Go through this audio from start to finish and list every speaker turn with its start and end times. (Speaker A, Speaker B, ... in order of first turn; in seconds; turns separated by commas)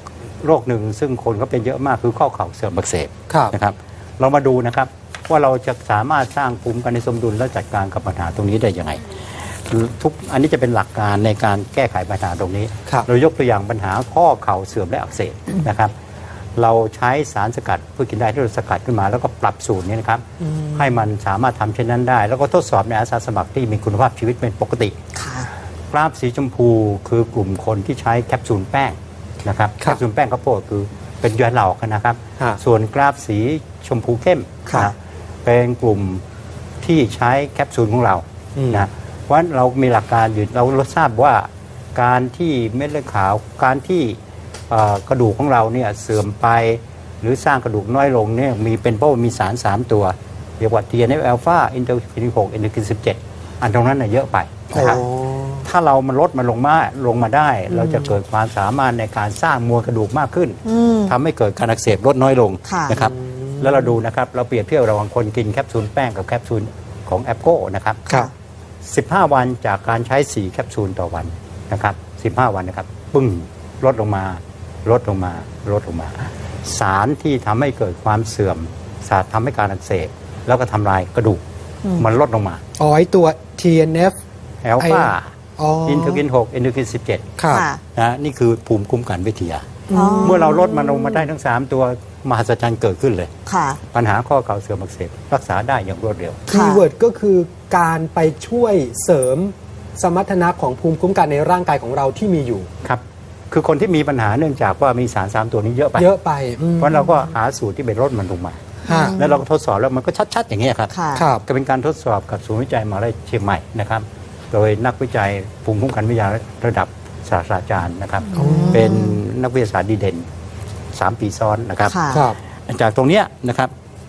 Speaker A: 0.4-15.9, Speaker B: 3.3-3.6, Speaker A: 16.6-25.0, Speaker B: 20.4-20.9, Speaker C: 25.1-25.5, Speaker A: 25.9-36.2, Speaker A: 36.8-44.2, Speaker B: 38.6-38.9, Speaker A: 44.7-55.0, Speaker B: 54.7-55.7, Speaker A: 55.6-68.2, Speaker C: 60.6-61.1, Speaker C: 62.7-63.0, Speaker B: 63.1-63.7, Speaker A: 68.8-81.4, Speaker A: 82.0-82.6, Speaker B: 82.8-84.2, Speaker A: 84.6-85.3, Speaker B: 84.8-86.2, Speaker A: 85.9-87.3, Speaker B: 87.4-87.7, Speaker C: 87.5-87.8, Speaker A: 87.9-89.7, Speaker B: 89.9-90.9, Speaker C: 89.9-90.4, Speaker A: 90.2-93.3, Speaker C: 93.5-93.8, Speaker A: 93.9-96.5, Speaker B: 96.5-102.7, Speaker C: 96.5-96.8, Speaker A: 102.8-106.1, Speaker B: 106.0-107.0, Speaker A: 106.8-120.3, Speaker C: 108.9-109.4, Speaker B: 108.9-109.1, Speaker C: 110.9-111.3, Speaker B: 111.2-111.5, Speaker C: 118.3-119.2, Speaker B: 118.4-118.8, Speaker A: 121.0-122.0, Speaker C: 121.9-122.3, Speaker B: 122.1-122.4, Speaker A: 122.7-123.7